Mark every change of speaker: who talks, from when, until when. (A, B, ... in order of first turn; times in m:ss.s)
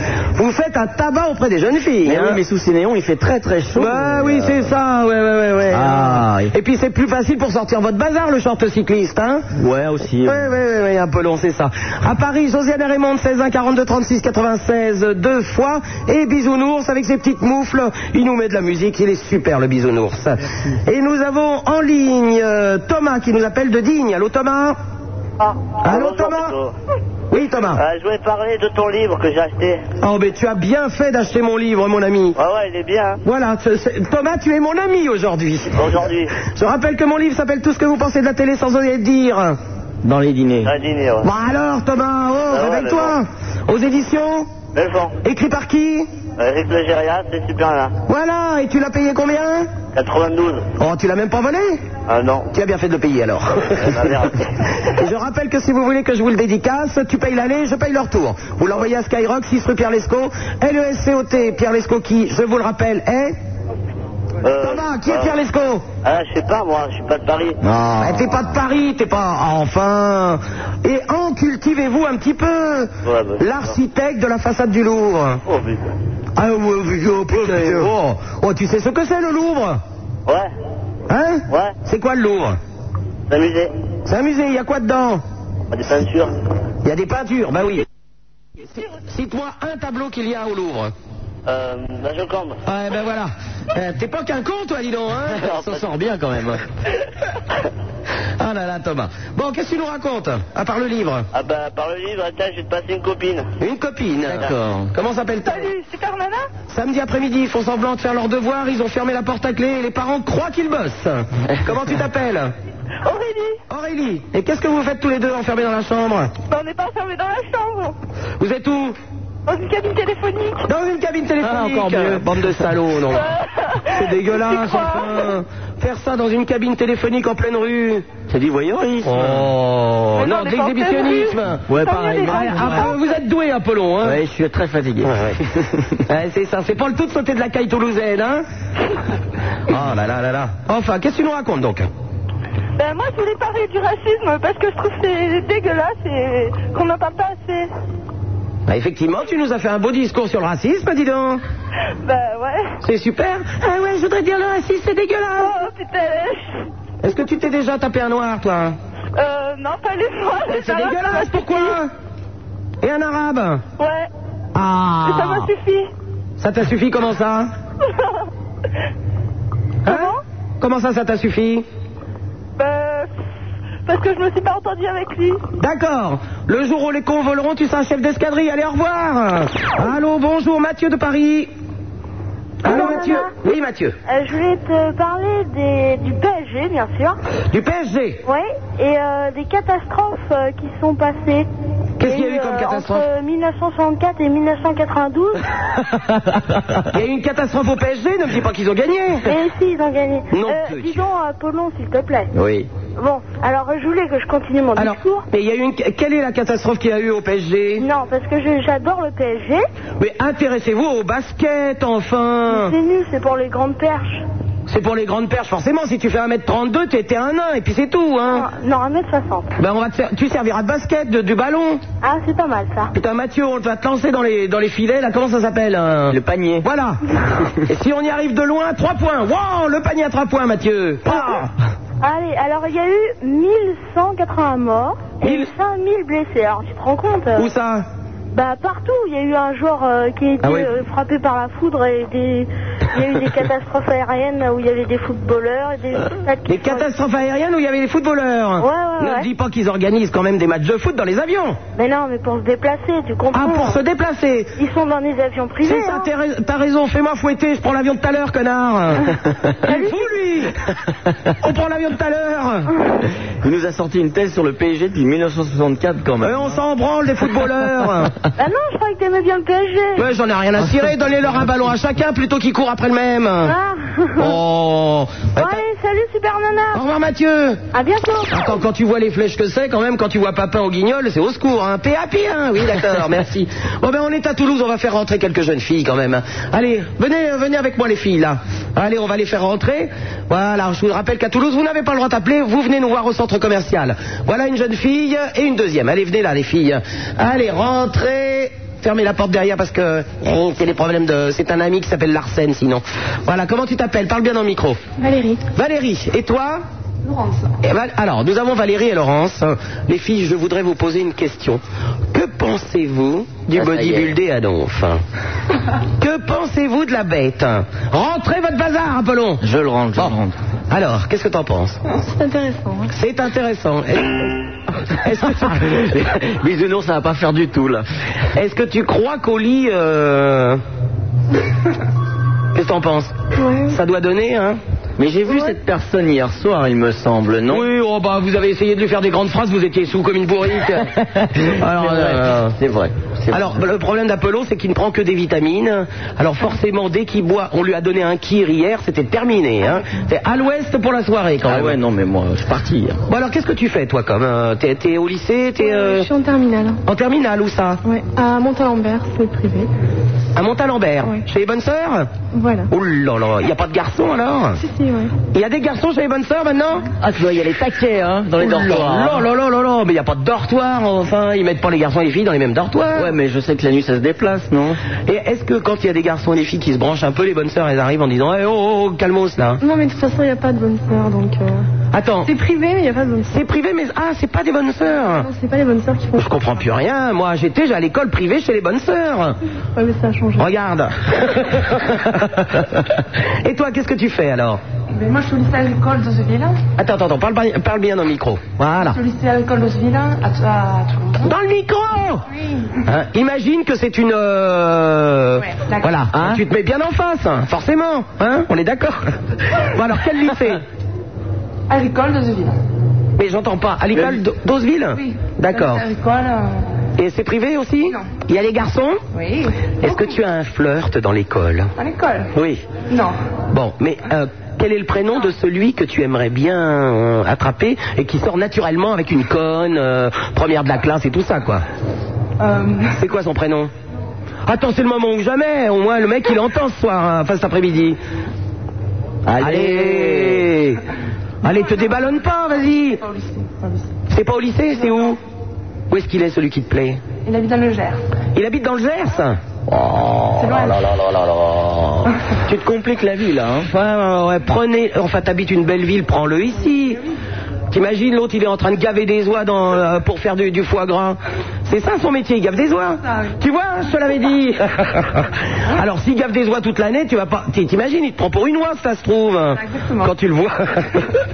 0:00.4-0:02.4 A
0:02.0-0:04.7 B
0:03.8-0:09.4 A
0:05.7-0:06.5 B
0:09.6-0:10.5 B
0:10.2-0:24.8 A
0:25.4-0:26.7 C
0:25.8-0:26.5 A
0:27.3-0:27.8 A
0:27.7-0:29.8 C
0:30.0-0:32.4 A
0:32.4-0:33.2 C
0:33.2-0:36.0 A
0:35.7-0:36.3 C
0:36.5-0:39.6 A
0:40.0-0:40.7 B
0:40.6-0:41.3 C
0:41.2-0:44.5 A
0:42.5-0:43.2 C
0:44.7-0:45.2 C
0:45.2-0:46.1 A
0:46.4-0:47.9 C
0:48.1-0:49.7 A
0:49.9-0:50.7 C
0:50.8-0:51.8 A
0:52.1-0:52.5 C
0:52.5-0:54.3 A
0:53.8-0:54.5 C
0:54.9-1:03.3 A
1:04.4-1:05.4 C
1:04.6-1:05.8 A
1:06.0-1:07.6 C
1:07.6-1:08.4 B
1:08.0-1:15.4 A
1:13.0-1:13.8 C
1:15.5-1:15.9 C
1:16.4-1:19.8 A
1:17.4-1:17.9 B
1:21.1-1:22.6 A
1:21.5-1:21.8 C
1:23.3-1:23.7 C
1:24.1-1:25.2 A
1:25.7-1:26.3 C
1:26.8-1:27.8 A
1:28.8-1:30.9 A
1:31.5-1:32.6 C
1:32.7-1:35.6 A
1:35.4-1:35.8 C
1:35.5-1:36.6 B
1:38.4-1:41.3 A
1:41.3-1:43.5 C
1:43.6-1:45.7 A
1:44.3-1:44.9 B
1:45.4-1:46.5 D
1:46.7-1:52.5 A
1:53.0-1:53.6 D
1:53.7-1:56.3 A
1:56.5-1:58.0 D
1:58.4-1:59.0 A
1:59.5-2:00.7 D
2:00.7-2:03.3 A
2:01.4-2:02.3 B
2:03.1-2:05.3 D
2:03.9-2:08.1 A
2:08.3-2:09.5 B
2:09.0-2:11.7 A
2:10.2-2:13.2 D
2:11.7-2:13.0 B
2:12.3-2:14.2 A
2:14.0-2:16.0 B
2:15.0-2:15.4 A
2:16.1-2:18.4 A
2:19.7-2:21.9 A
2:22.8-2:27.7 D
2:28.7-2:31.4 A
2:32.0-2:32.7 D
2:32.8-2:35.6 A
2:35.4-2:36.5 D
2:37.0-2:38.8 A
2:39.2-2:41.8 D
2:40.5-2:41.9 A
2:42.8-2:43.6 A
2:43.8-2:44.1 D
2:44.6-2:45.5 A
2:45.0-2:45.9 D
2:46.4-2:47.5 A
2:47.8-2:48.1 D
2:49.9-2:51.7 A
2:49.9-2:50.2 D
2:52.6-2:53.1 D
2:53.9-2:55.4 D
2:55.6-3:01.5 A
3:02.6-3:04.0 A
3:02.6-3:03.3 E
3:04.1-3:07.2 E
3:07.5-3:08.2 A
3:08.3-3:11.5 E
3:12.0-3:13.0 A
3:12.0-3:15.4 E
3:16.1-3:16.9 B
3:16.9-3:19.3 A
3:19.3-3:22.3 E
3:20.3-3:21.0 A
3:22.3-3:22.7 B
3:23.0-3:25.2 E
3:24.8-3:27.8 A
3:27.8-3:29.6 E
3:30.0-3:32.7 A
3:32.5-3:34.2 E
3:34.7-3:38.4 A
3:38.3-3:39.5 E
3:39.6-3:41.8 A
3:42.0-3:42.9 E
3:42.9-3:47.0 A
3:46.1-3:46.7 B
3:47.7-3:51.5 A
3:52.0-3:57.5 E
3:55.2-3:55.5 A
3:57.4-3:57.9 A
3:58.3-4:06.9 E
4:00.4-4:00.7 A
4:06.5-4:11.6 A
4:08.6-4:09.3 E
4:11.8-4:13.8 E
4:13.3-4:14.5 A
4:14.6-4:16.1 E
4:15.6-4:19.1 A
4:19.7-4:20.0 E
4:19.7-4:20.6 A
4:21.4-4:22.7 A
4:23.4-4:26.5 B
4:26.2-4:28.1 A
4:28.4-4:30.0 E
4:30.0-4:33.5 A
4:33.4-4:34.4 E
4:34.2-4:35.6 A
4:35.4-4:36.8 E
4:36.7-4:37.6 A
4:37.7-4:38.5 E
4:38.3-5:04.8 A
5:05.0-5:05.4 F
5:05.6-5:06.6 A
5:07.0-5:07.6 G
5:07.6-5:11.6 A
5:12.1-5:15.0 A
5:13.5-5:14.1 B
5:16.0-5:19.4 A
5:19.4-5:20.4 B
5:20.7-5:21.8 A
5:22.0-5:22.9 F
5:22.9-5:24.3 A
5:25.0-5:25.9 A
5:25.6-5:27.8 B
5:28.4-5:30.6 A
5:32.6-5:33.2 A
5:33.4-5:33.8 F
5:33.7-5:34.6 A
5:35.0-5:37.7 B
5:37.5-5:40.9 A
5:40.9-5:43.6 B
5:41.4-5:42.4 A
5:43.3-5:51.8 A
5:51.4-5:53.0 B
5:53.1-5:56.1 A
5:55.6-5:56.8 F
5:56.9-5:57.8 A
5:57.8-5:59.7 F
6:00.4-6:02.1 A
6:02.3-6:02.7 F
6:02.7-6:04.6 A
6:04.6-6:05.1 F
6:05.3-6:06.9 A
6:07.0-6:09.2 B
6:08.4-6:13.1 A
6:13.0-6:14.8 B
6:15.1-6:19.6 A
6:19.6-6:21.7 F
6:21.9-6:22.3 A
6:22.2-6:23.3 F
6:23.3-6:25.3 A
6:24.9-6:26.3 F
6:26.2-6:29.4 A
6:29.8-6:30.5 F
6:30.4-6:34.6 A
6:34.9-6:36.6 G
6:36.8-6:39.0 A
6:38.8-6:41.3 G
6:41.2-6:42.2 A
6:42.4-6:42.7 G
6:42.9-6:50.6 A
6:45.4-6:46.0 G
6:46.1-6:46.4 B
6:51.7-6:52.6 G
6:53.2-6:55.8 A
6:54.9-6:56.8 G
6:57.0-6:59.0 A
6:57.9-6:58.1 G
6:59.1-7:00.2 G
6:59.8-7:01.7 A
7:01.8-7:02.3 G
7:02.4-7:02.6 A
7:02.9-7:03.2 G
7:03.5-7:11.6 A
7:12.4-7:12.9 G
7:13.0-7:13.7 A
7:14.5-7:18.0 A
7:19.3-7:20.5 B
7:19.4-7:20.8 A
7:21.4-7:23.0 A
7:23.0-7:23.9 G
7:24.1-7:25.2 A
7:25.9-7:27.0 A
7:27.2-7:28.0 G
7:28.4-7:29.4 A
7:29.7-7:33.7 B
7:30.4-7:30.8 G
7:33.6-7:37.0 A
7:36.6-7:37.0 G
7:37.7-7:51.1 A
7:43.0-7:43.4 G
7:49.6-7:50.1 G